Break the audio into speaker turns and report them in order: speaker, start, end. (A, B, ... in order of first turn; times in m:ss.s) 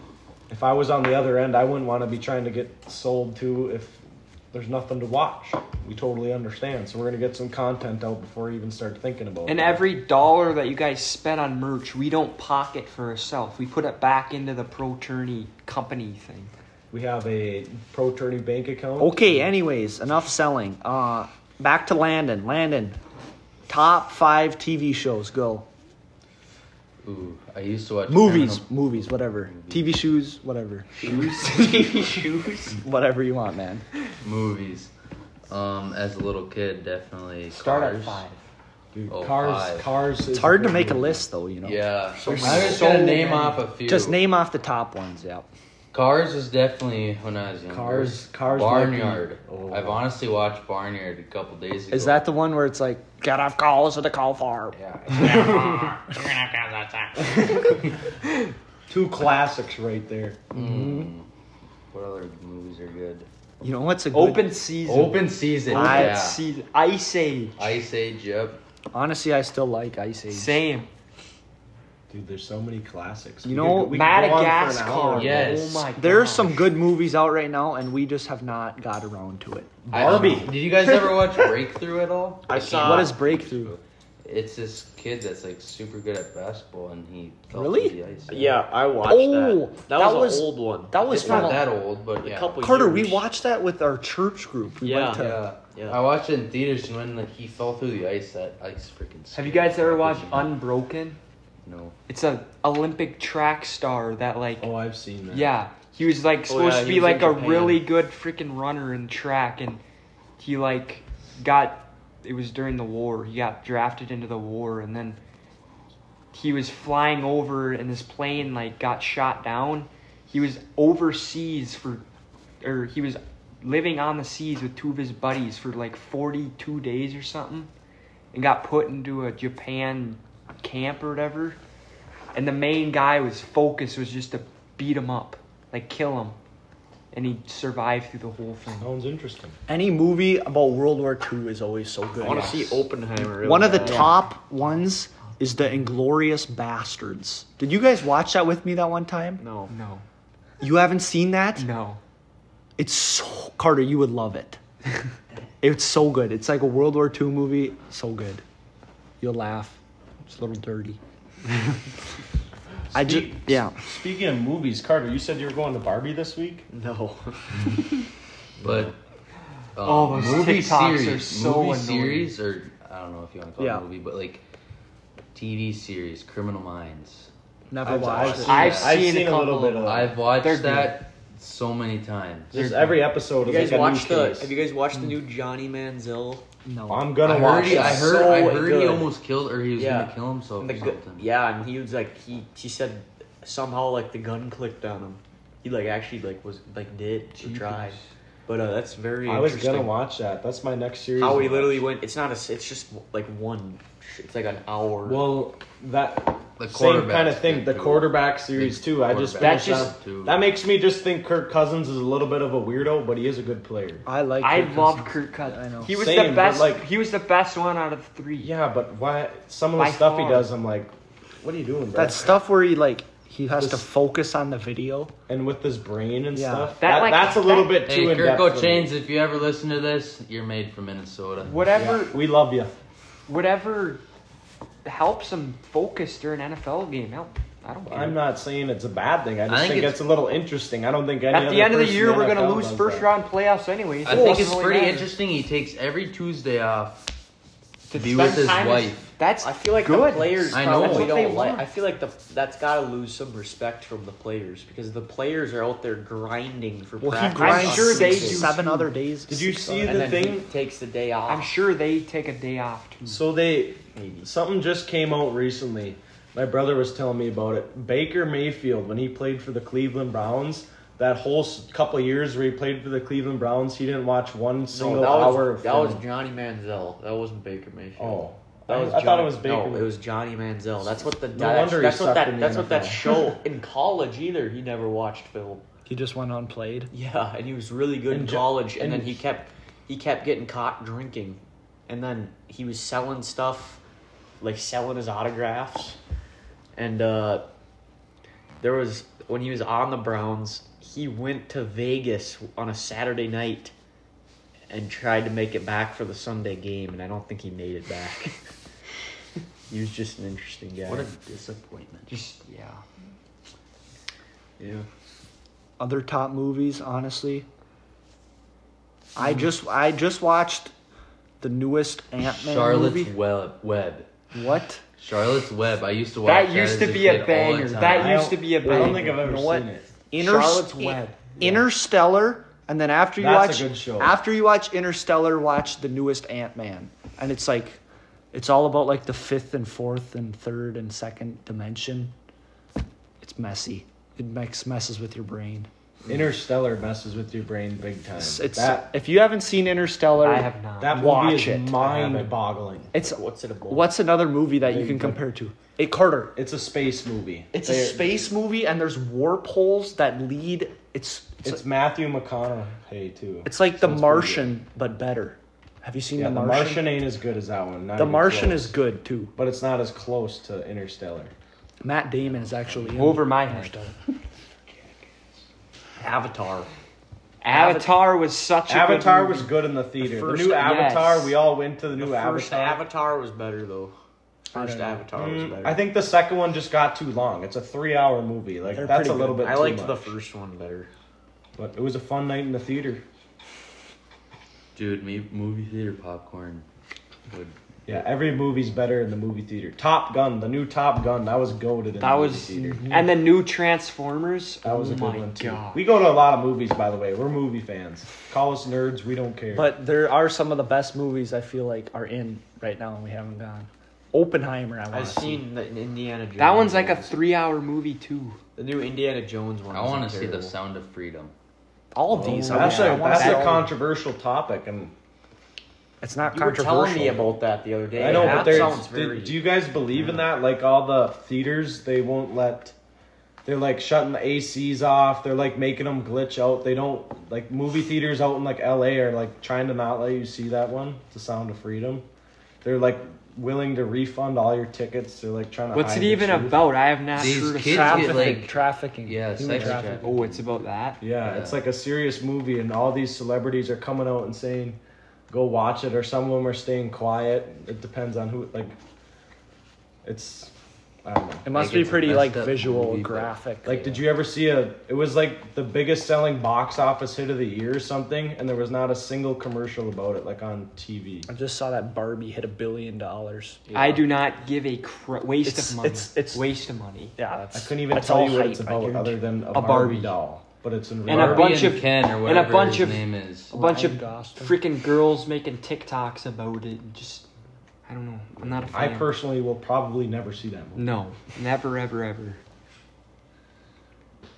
0:00.5-0:09.8 A
0:09.4-0:16.5 B
0:16.9-0:19.4 A
0:19.0-0:23.0 C
0:23.7-0:25.6 C
0:27.0-0:30.0 D
0:28.1-0:30.9 C
0:31.0-0:32.8 E
0:31.0-0:31.8 B
0:32.8-0:33.8 C
0:34.2-0:34.9 D
0:35.5-0:38.2 D
0:37.5-0:38.4 B
0:38.9-0:41.2 A
0:39.1-0:39.9 D
0:40.3-0:41.8 C
0:41.6-0:44.2 D
0:42.1-0:43.0 E
0:42.4-0:42.8 C
0:42.6-0:43.6 B
0:43.8-0:45.5 C
0:45.9-0:52.3 D
0:47.7-0:50.0 A
0:51.9-0:54.8 C
0:54.7-0:57.4 D
0:58.9-1:00.4 A
1:00.5-1:01.3 D
1:00.5-1:01.1 C
1:01.9-1:03.3 D
1:03.6-1:04.5 C
1:04.1-1:07.6 B
1:04.8-1:06.4 D
1:05.7-1:06.2 C
1:07.6-1:08.6 D
1:08.9-1:10.6 C
1:10.3-1:10.9 B
1:12.1-1:15.5 A
1:13.4-1:14.0 C
1:13.9-1:16.7 B
1:15.2-1:15.9 D
1:16.0-1:19.8 C
1:19.8-1:20.5 A
1:19.9-1:28.6 D
1:22.5-1:23.2 E
1:22.8-1:23.8 C
1:27.5-1:28.0 C
1:28.3-1:31.6 E
1:29.0-1:31.7 C
1:31.0-1:32.6 D
1:32.2-1:33.2 E
1:32.6-1:35.4 C
1:34.8-1:36.0 E
1:35.1-1:40.6 D
1:39.3-1:41.2 B
1:41.6-1:41.9 D
1:42.1-1:44.7 B
1:44.6-1:45.6 A
1:45.3-1:49.8 B
1:46.5-1:47.9 E
1:50.4-1:55.2 B
1:56.3-2:02.0 B
2:02.6-2:07.7 B
2:08.3-2:11.6 B
2:12.3-2:16.4 B
2:17.1-2:18.9 B
2:18.8-2:19.6 A
2:19.7-2:22.7 C
2:22.2-2:24.2 E
2:22.2-2:22.8 B
2:23.2-2:29.4 C
2:29.4-2:29.7 E
2:29.7-2:30.0 B
2:30.6-2:31.7 C
2:31.6-2:32.0 B
2:32.8-2:34.6 C
2:35.6-2:38.4 C
2:39.2-2:41.0 C
2:42.9-2:46.7 A
2:42.9-2:43.7 C
2:46.7-2:48.0 E
2:48.6-2:49.0 D
2:48.6-2:48.9 E
2:49.8-2:54.4 D
2:49.8-2:52.3 B
2:53.6-2:53.8 C
2:55.3-2:57.3 D
2:57.7-2:58.7 C
2:57.8-3:00.2 A
2:58.0-2:59.0 D
2:58.4-3:01.0 B
2:59.8-3:02.5 D
3:02.5-3:04.5 A
3:02.5-3:03.0 B
3:03.4-3:06.4 E
3:06.6-3:07.2 C
3:06.9-3:08.2 A
3:07.2-3:11.3 D
3:07.4-3:09.1 E
3:09.7-3:19.9 E
3:17.4-3:18.1 B
3:19.2-3:21.8 A
3:21.2-3:25.3 E
3:25.0-3:34.0 A
3:26.6-3:30.4 D
3:29.4-3:29.9 B
3:34.0-3:35.9 C
3:34.4-3:38.5 B
3:35.9-3:36.9 A
3:38.4-3:42.3 A
3:39.8-3:40.5 B
3:41.9-3:45.1 C
3:43.6-3:43.8 B
3:45.3-3:48.9 A
3:46.3-3:46.8 C
3:46.8-3:47.8 B
3:47.8-3:51.6 D
3:51.4-3:52.2 B
3:51.7-3:52.8 A
3:53.3-3:54.0 B
3:54.8-3:58.2 B
3:57.9-4:03.1 A
3:59.5-4:00.0 D
4:01.3-4:05.1 B
4:04.0-4:07.1 D
4:07.9-4:11.7 B
4:07.9-4:09.1 D
4:09.4-4:18.6 E
4:10.4-4:11.3 D
4:17.0-4:20.1 C
4:17.3-4:18.9 B
4:19.3-4:20.5 A
4:19.8-4:21.5 E
4:21.3-4:23.2 B
4:23.0-4:36.0 A
4:24.0-4:24.2 E
4:34.7-4:45.6 E
4:38.0-4:39.9 A
4:40.8-4:43.4 A
4:45.9-4:46.9 C
4:46.9-4:53.8 E
4:48.1-4:49.2 A
4:54.4-4:56.0 E
4:56.7-4:57.5 E
4:58.6-5:03.7 E
5:04.7-5:08.3 E
5:09.7-5:11.1 E
5:10.8-5:12.1 D
5:12.1-5:12.8 B
5:14.6-5:14.8 E
5:15.8-5:17.5 C
5:19.2-5:20.7 C
5:21.4-5:23.1 C
5:22.4-5:24.1 D
5:24.3-5:24.8 C
5:25.0-5:28.2 D
5:26.2-5:29.1 B
5:27.9-5:29.9 A
5:28.6-5:37.8 C
5:30.2-5:31.5 B
5:33.2-5:34.2 A
5:38.3-5:42.1 C
5:43.2-5:45.7 C
5:46.0-5:48.9 A
5:48.2-5:52.3 C
5:50.2-5:50.9 B
5:50.8-5:52.9 A
5:52.9-5:56.3 C
5:53.0-5:54.0 E
5:54.6-5:55.2 A
5:56.3-5:58.1 A
5:57.5-6:01.6 C
6:01.4-6:04.5 A
6:03.4-6:06.9 C
6:06.2-6:08.7 A
6:08.0-6:09.3 C
6:09.4-6:11.3 A
6:11.8-6:14.0 C
6:12.9-6:13.7 B
6:16.0-6:16.7 E
6:17.4-6:21.4 B
6:17.5-6:17.9 C
6:18.7-6:22.8 A
6:21.9-6:24.0 E
6:24.5-6:25.8 E
6:24.5-6:30.1 A
6:24.6-6:25.0 C
6:28.7-6:29.5 C
6:29.4-6:30.9 E
6:31.6-6:33.0 A
6:34.7-6:36.6 D
6:37.3-6:38.0 D
6:37.8-6:43.0 A
6:42.0-6:45.8 B
6:44.6-6:49.7 A
6:49.5-6:55.4 C
6:54.9-6:57.2 E
6:56.4-6:58.4 B
6:58.6-7:00.5 E
6:59.7-7:01.3 D
7:01.9-7:03.7 C
7:02.1-7:04.9 A
7:02.5-7:03.2 E
7:03.2-7:03.5 B
7:06.0-7:07.2 C
7:06.3-7:09.4 E
7:08.0-7:12.7 A
7:08.0-7:08.8 C
7:10.0-7:10.2 E
7:13.4-7:22.0 A
7:22.6-7:26.6 A
7:25.7-7:28.5 B
7:27.1-7:30.4 D
7:27.5-7:30.1 C
7:29.6-7:31.0 B
7:31.0-7:38.7 A
7:31.2-7:31.6 D
7:40.0-7:40.5 A
7:41.0-7:41.4 A
7:41.4-7:44.0 C
7:41.5-7:43.9 D
7:43.6-7:51.3 A
7:51.3-7:53.6 C
7:53.7-7:57.1 B
7:55.4-7:56.4 C
7:57.2-8:00.1 C
7:57.5-8:01.7 A
8:01.1-8:07.3 B
8:01.1-8:03.5 D
8:03.5-8:04.6 C
8:07.8-8:09.1 B
8:08.7-8:10.8 A
8:10.7-8:12.4 B